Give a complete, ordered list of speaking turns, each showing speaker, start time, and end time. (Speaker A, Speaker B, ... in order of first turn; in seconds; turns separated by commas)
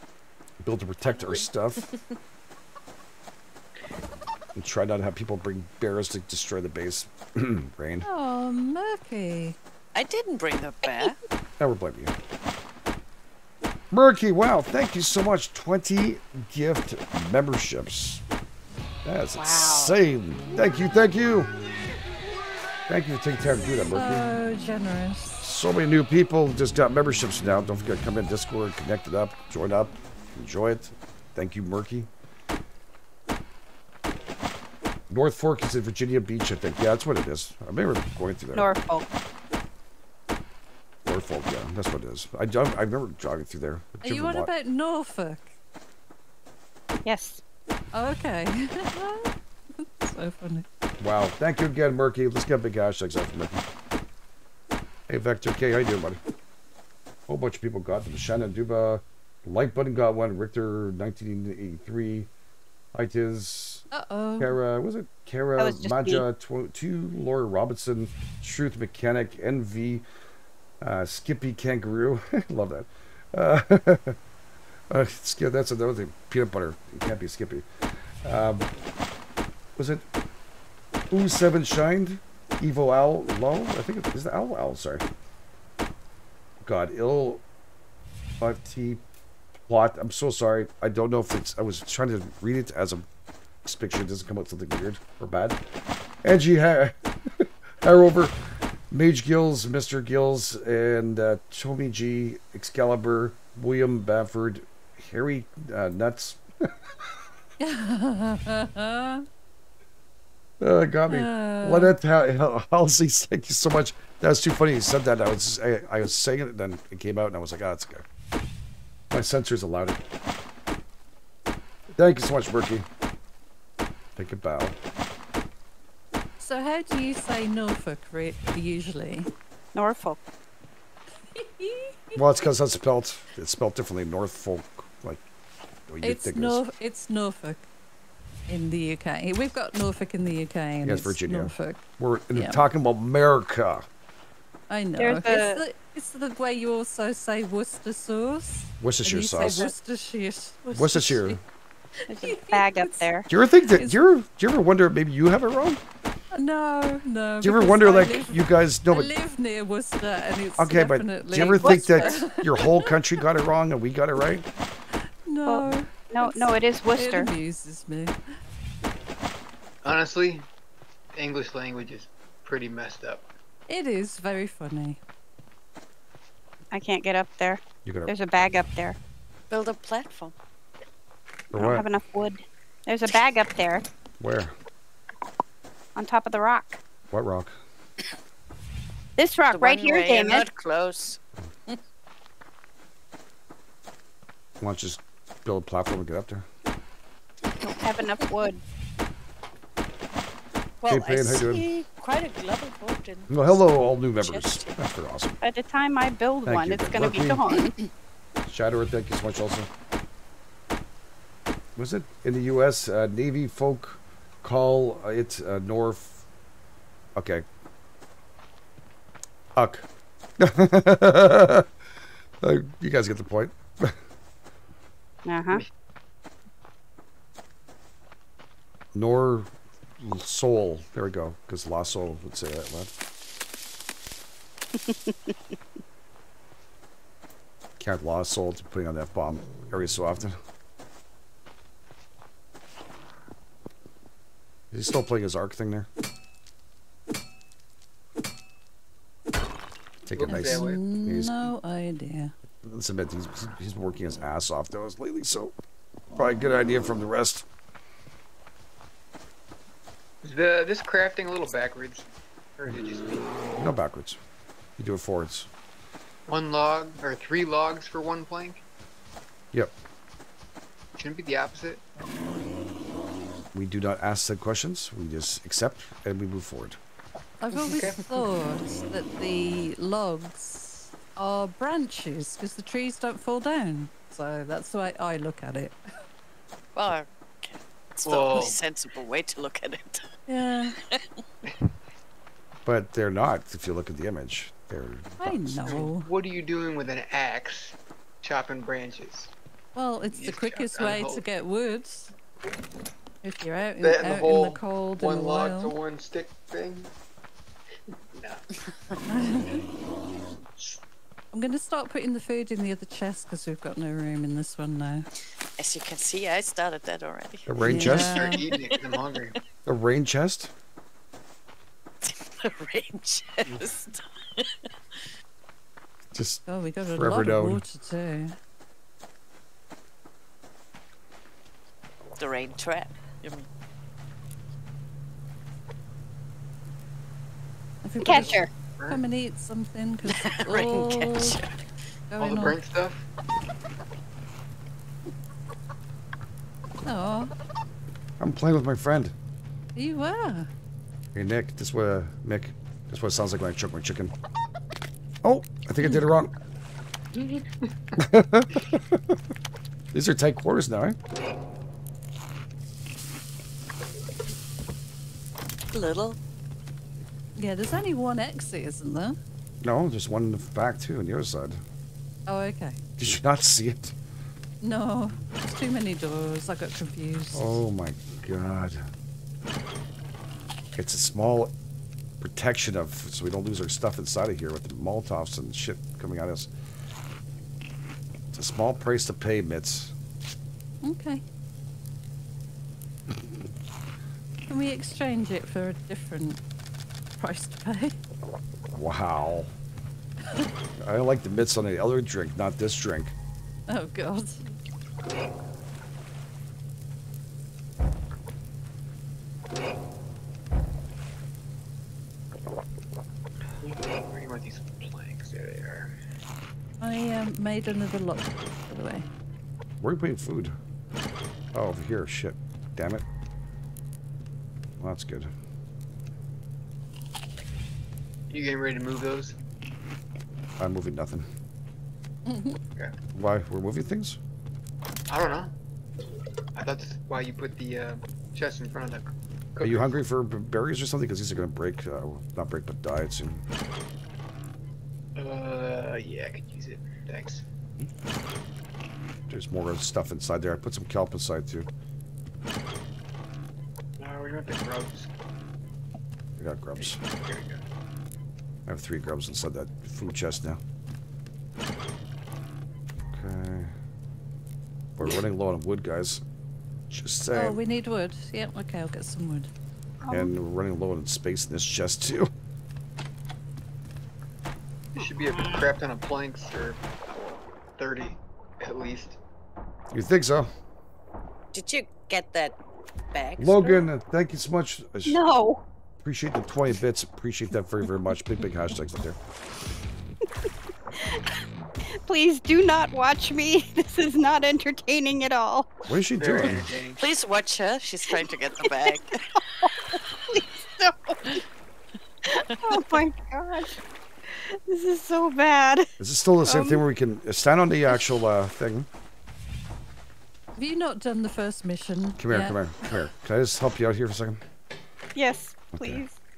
Speaker A: 0.6-1.9, Speaker A: 4.5-8.1, Speaker B: 8.1-9.6, Speaker C: 9.9-11.2, Speaker A: 11.6-12.2, Speaker A: 13.9-18.2, Speaker A: 19.1-21.5, Speaker D: 19.4-20.0, Speaker A: 22.9-24.3, Speaker B: 23.6-25.4, Speaker A: 25.4-32.1, Speaker A: 35.1-38.7, Speaker D: 38.5-39.1, Speaker A: 41.0-44.5, Speaker B: 44.0-45.5, Speaker D: 47.0-47.4, Speaker B: 47.9-50.7, Speaker A: 51.0-53.6, Speaker A: 55.1-56.2, Speaker A: 57.3-62.3, Speaker A: 62.9-63.9, Speaker B: 63.9-64.6, Speaker A: 64.4-70.0, Speaker D: 65.6-66.2, Speaker A: 70.8-74.2, Speaker A: 74.9-77.7, Speaker A: 78.2-78.7, Speaker A: 79.8-80.0, Speaker A: 81.1-85.0, Speaker A: 86.6-87.4, Speaker A: 88.4-89.0, Speaker A: 89.7-93.1, Speaker A: 93.6-95.6, Speaker A: 96.2-98.4, Speaker A: 98.9-106.8, Speaker B: 107.6-109.3, Speaker A: 110.6-118.0, Speaker B: 111.1-111.9, Speaker A: 119.1-120.0, Speaker A: 122.0-122.9, Speaker A: 124.2-124.8, Speaker B: 126.4-129.3, Speaker D: 129.8-130.2, Speaker B: 131.3-132.2, Speaker A: 132.2-135.2, Speaker A: 135.9-136.6, Speaker B: 136.0-137.7, Speaker B: 138.5-142.6, Speaker A: 140.8-143.9, Speaker B: 144.7-151.4, Speaker D: 145.0-145.6, Speaker A: 148.8-149.7, Speaker A: 150.7-151.4, Speaker B: 152.0-153.1, Speaker D: 152.1-153.3, Speaker A: 153.3-155.8, Speaker B: 153.7-154.0, Speaker B: 156.3-163.0, Speaker A: 157.4-159.1, Speaker A: 160.6-164.5, Speaker D: 161.6-162.2, Speaker B: 165.3-168.2, Speaker D: 165.5-167.3, Speaker E: 169.8-170.5, Speaker E: 171.1-173.3, Speaker B: 173.7-175.0, Speaker D: 176.7-179.0, Speaker A: 177.8-178.2, Speaker C: 179.5-180.3, Speaker A: 181.5-181.9, Speaker D: 181.6-183.8, Speaker A: 184.2-184.6, Speaker D: 186.0-186.8, Speaker A: 187.1-187.6, Speaker D: 189.2-190.4, Speaker C: 189.5-191.8, Speaker A: 194.6-196.5, Speaker D: 197.6-198.6, Speaker C: 200.8-204.8, Speaker A: 200.9-201.7, Speaker A: 203.3-205.4, Speaker D: 205.4-207.8, Speaker A: 206.5-207.6, Speaker A: 208.5-209.7, Speaker A: 211.8-216.2, Speaker A: 217.2-217.4, Speaker A: 219.6-219.9, Speaker A: 220.4-221.7, Speaker A: 222.4-224.0, Speaker D: 225.2-225.6, Speaker A: 228.9-232.9, Speaker D: 234.8-235.4, Speaker A: 237.8-240.4, Speaker A: 244.7-245.9, Speaker A: 250.1-251.5, Speaker E: 250.1-250.8, Speaker B: 250.2-252.3, Speaker A: 252.6-255.5, Speaker A: 256.1-257.5, Speaker E: 260.2-263.3, Speaker A: 263.6-264.2, Speaker A: 264.8-265.5, Speaker E: 266.3-268.6, Speaker E: 270.9-271.8, Speaker A: 273.5-276.8, Speaker B: 277.4-285.8, Speaker E: 277.7-278.0, Speaker C: 286.8-290.1, Speaker E: 288.1-288.6, Speaker B: 290.3-290.8, Speaker C: 290.8-291.1, Speaker A: 292.6-295.8, Speaker B: 295.2-296.1, Speaker E: 295.6-299.3, Speaker B: 299.8-302.1, Speaker E: 300.1-301.2, Speaker B: 303.2-305.7, Speaker E: 303.8-306.9, Speaker E: 308.1-308.5, Speaker B: 309.1-309.6, Speaker B: 311.3-315.1, Speaker C: 315.6-319.0, Speaker A: 317.5-318.2, Speaker B: 317.6-318.5, Speaker E: 317.8-319.4, Speaker A: 319.7-320.5, Speaker C: 322.0-325.1, Speaker A: 326.1-327.6, Speaker B: 326.5-328.4, Speaker C: 332.2-333.5, Speaker B: 337.8-341.4, Speaker D: 338.0-338.5, Speaker C: 340.1-341.6, Speaker B: 342.1-342.6, Speaker E: 342.2-343.0, Speaker B: 346.8-347.3, Speaker A: 348.2-349.1, Speaker B: 349.8-350.5, Speaker A: 351.1-354.1, Speaker A: 355.2-356.3, Speaker C: 357.2-357.4, Speaker A: 358.0-359.2, Speaker A: 359.9-361.0, Speaker C: 365.7-366.2, Speaker B: 367.4-369.2, Speaker A: 369.6-371.6, Speaker B: 372.3-372.8, Speaker A: 373.0-373.9, Speaker B: 374.6-377.6, Speaker A: 377.3-378.9, Speaker A: 380.8-381.5, Speaker A: 382.2-386.5, Speaker A: 388.3-389.9, Speaker B: 390.8-391.2, Speaker B: 394.5-396.4, Speaker B: 397.2-398.0, Speaker A: 398.7-399.5, Speaker A: 400.8-403.1, Speaker B: 403.7-404.4, Speaker E: 413.6-416.0, Speaker B: 416.8-419.1, Speaker A: 419.8-420.6, Speaker A: 421.5-423.0, Speaker A: 424.8-425.3, Speaker E: 428.3-429.4, Speaker A: 430.6-431.3, Speaker B: 432.3-432.6, Speaker A: 433.1-434.2, Speaker E: 435.1-435.5, Speaker E: 436.6-440.0, Speaker A: 439.6-443.4, Speaker E: 445.2-447.4, Speaker A: 449.3-451.7, Speaker E: 454.0-455.1, Speaker A: 456.4-457.0, Speaker E: 456.8-457.6, Speaker A: 458.7-460.6, Speaker A: 463.1-463.7, Speaker A: 465.0-466.2, Speaker A: 466.9-467.6, Speaker B: 467.3-469.5, Speaker D: 470.0-470.3, Speaker A: 470.1-472.3, Speaker E: 474.9-479.2, Speaker D: 475.0-475.6, Speaker A: 479.9-480.5, Speaker C: 481.5-482.6, Speaker C: 483.1-483.8, Speaker A: 483.4-485.2, Speaker D: 485.1-485.6, Speaker A: 486.0-489.2, Speaker D: 491.0-491.3, Speaker D: 492.1-495.7, Speaker A: 495.9-496.7, Speaker E: 496.2-497.0, Speaker C: 496.5-499.3, Speaker D: 498.2-499.0, Speaker D: 499.6-501.4, Speaker C: 502.3-503.0, Speaker D: 502.3-503.8, Speaker D: 504.3-505.9, Speaker A: 506.0-508.9, Speaker D: 506.4-506.8, Speaker B: 510.6-512.6, Speaker A: 512.2-514.4, Speaker D: 515.1-516.2, Speaker A: 515.7-516.0